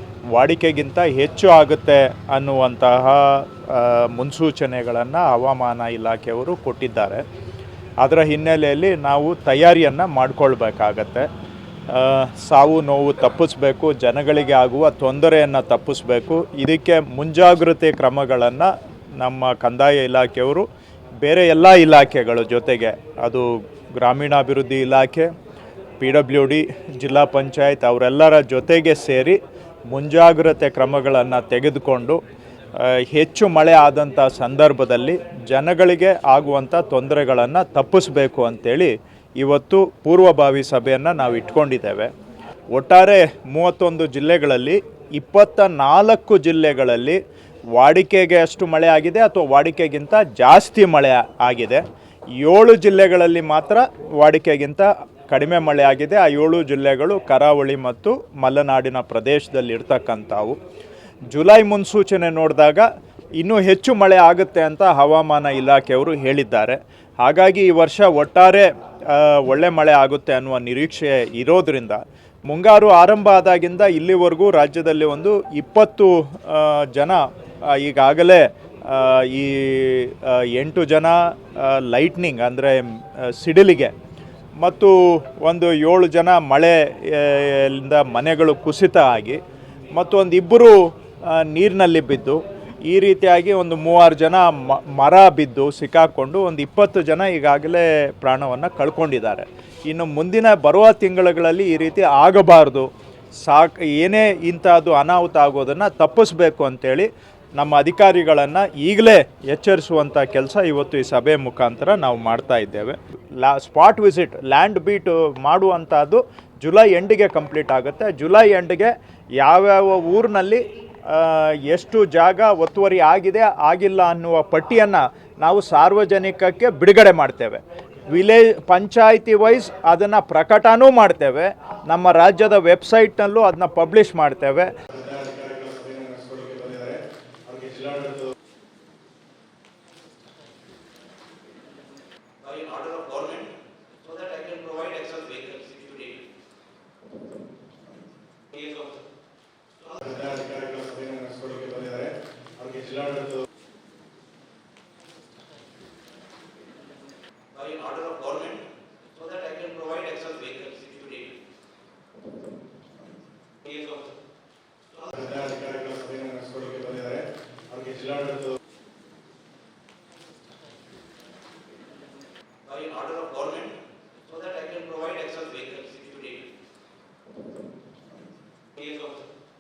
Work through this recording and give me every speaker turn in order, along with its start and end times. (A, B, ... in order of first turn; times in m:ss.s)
0:00.3-0:07.2 A
0:08.0-0:11.3 A
0:11.9-0:20.7 A
0:21.2-0:25.3 A
0:26.0-0:32.2 A
0:32.8-0:42.1 A
0:42.7-0:47.2 A
0:47.8-0:51.8 A
0:52.4-1:00.6 A
1:01.3-1:02.9 A
1:03.4-1:23.9 A
1:24.6-1:29.4 A
1:29.9-1:42.9 A
1:43.4-2:14.7 A
2:14.9-2:18.3 B
2:22.4-2:26.3 C
2:28.5-2:29.0 C
2:30.0-2:33.4 B
2:37.5-2:41.4 C
2:43.6-2:44.1 C
2:45.1-2:48.6 B
2:52.6-2:56.5 C
2:58.8-2:59.3 C